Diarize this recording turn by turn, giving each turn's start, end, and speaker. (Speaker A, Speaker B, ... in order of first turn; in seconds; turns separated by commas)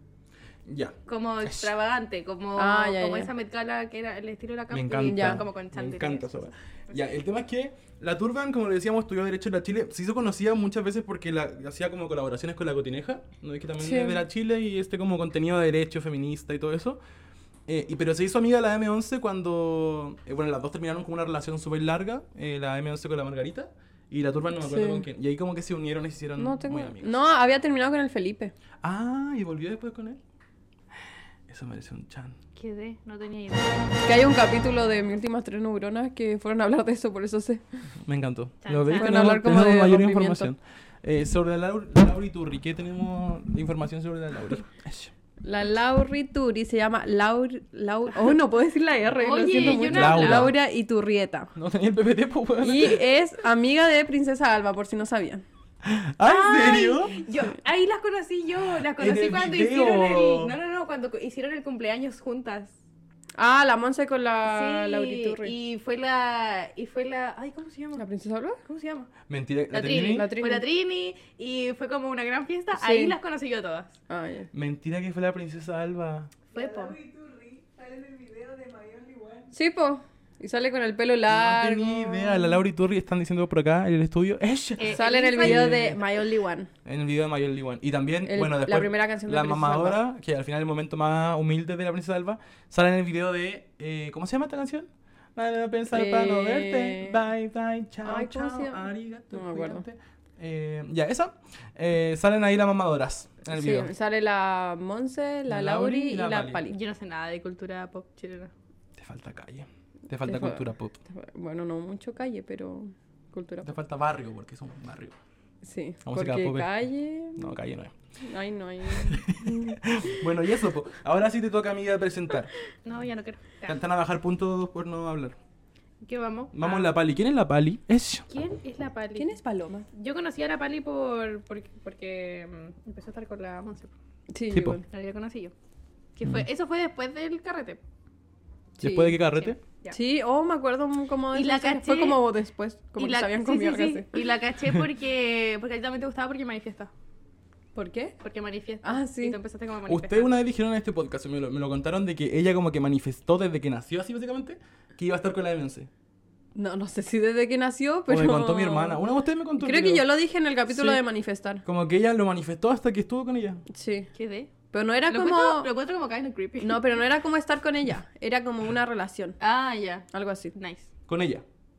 Speaker A: 0.6-1.7, Speaker B: 1.1-6.9, Speaker C: 2.6-3.3, Speaker A: 4.7-17.0, Speaker C: 5.0-5.4, Speaker C: 13.8-14.2, Speaker A: 17.7-27.2, Speaker C: 24.6-25.0, Speaker C: 26.4-28.5, Speaker A: 28.8-30.2, Speaker A: 31.5-32.4, Speaker B: 32.5-33.9, Speaker C: 34.0-37.6, Speaker A: 38.0-45.1, Speaker B: 38.6-39.1, Speaker C: 39.0-40.5, Speaker C: 45.4-51.5, Speaker B: 49.2-50.5, Speaker A: 49.5-50.5, Speaker A: 51.5-53.0, Speaker C: 52.6-55.4, Speaker A: 55.8-57.2, Speaker B: 56.2-62.7, Speaker A: 59.0-60.5, Speaker C: 63.4-65.5, Speaker B: 64.5-68.0, Speaker C: 68.0-68.6, Speaker B: 68.6-69.1, Speaker A: 69.3-70.3, Speaker B: 69.7-74.0, Speaker C: 69.8-70.6, Speaker C: 72.8-73.1, Speaker C: 74.1-74.5, Speaker A: 74.5-76.3, Speaker B: 76.5-77.0, Speaker C: 79.5-82.6, Speaker A: 81.3-86.0, Speaker B: 84.8-85.8, Speaker C: 84.9-86.7, Speaker A: 86.8-103.9, Speaker C: 88.2-90.0, Speaker C: 95.9-97.2, Speaker C: 98.0-99.8, Speaker C: 103.5-106.8, Speaker A: 105.5-106.6, Speaker B: 106.7-108.5, Speaker A: 109.0-111.0, Speaker C: 110.2-113.7, Speaker A: 113.6-115.2, Speaker C: 115.6-117.4, Speaker A: 116.0-116.7, Speaker A: 117.3-117.9, Speaker C: 118.2-119.8, Speaker A: 118.9-122.5, Speaker B: 122.8-123.8, Speaker A: 123.7-125.4, Speaker B: 126.0-126.9, Speaker A: 126.5-128.3, Speaker B: 128.3-129.3, Speaker C: 129.2-129.9, Speaker B: 129.9-133.9, Speaker C: 134.3-134.8, Speaker A: 134.5-134.8, Speaker B: 134.8-135.5, Speaker B: 136.2-137.8, Speaker C: 138.8-139.2, Speaker A: 138.8-139.6, Speaker B: 139.4-139.9, Speaker C: 139.9-144.1, Speaker B: 141.3-142.2, Speaker B: 143.0-146.9, Speaker C: 147.7-148.1, Speaker B: 148.2-150.3, Speaker C: 148.8-149.4, Speaker A: 149.9-155.9, Speaker C: 156.5-159.0, Speaker A: 158.1-160.1, Speaker C: 159.6-161.6, Speaker A: 160.7-161.0, Speaker A: 161.6-163.6, Speaker C: 163.7-164.1, Speaker B: 164.1-164.5, Speaker C: 164.7-165.7, Speaker B: 165.1-166.9, Speaker C: 166.6-169.4, Speaker B: 169.4-170.9, Speaker C: 170.1-170.5, Speaker A: 171.1-171.4